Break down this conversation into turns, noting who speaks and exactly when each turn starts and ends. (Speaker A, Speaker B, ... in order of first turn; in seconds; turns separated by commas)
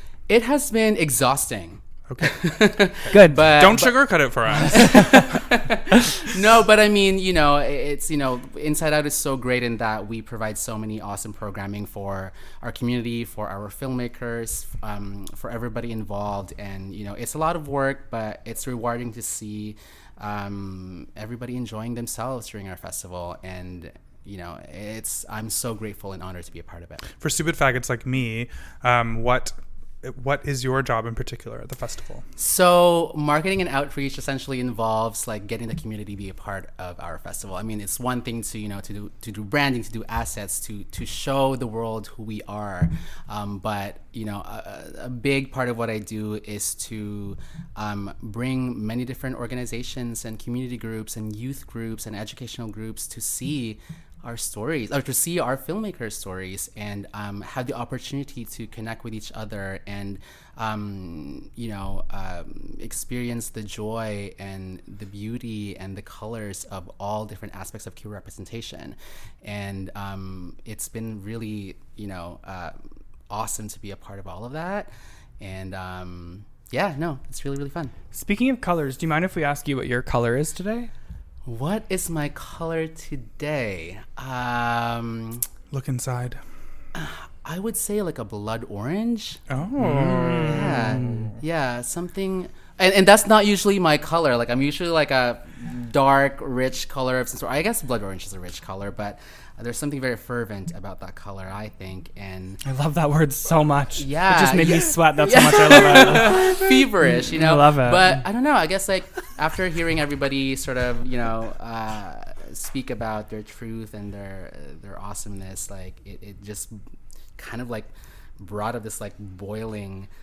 Speaker A: 0.3-4.1, Speaker B: 2.1-5.3, Speaker C: 3.1-3.6, Speaker A: 4.6-27.1, Speaker C: 4.7-5.2, Speaker B: 27.2-32.2, Speaker A: 32.4-72.8, Speaker A: 73.3-77.9, Speaker C: 78.1-80.9, Speaker A: 81.5-85.4, Speaker B: 85.7-86.4, Speaker A: 87.0-102.6, Speaker B: 89.5-91.4, Speaker C: 89.8-91.3, Speaker C: 102.6-106.7, Speaker A: 104.0-116.8, Speaker C: 107.3-108.2, Speaker A: 117.4-120.1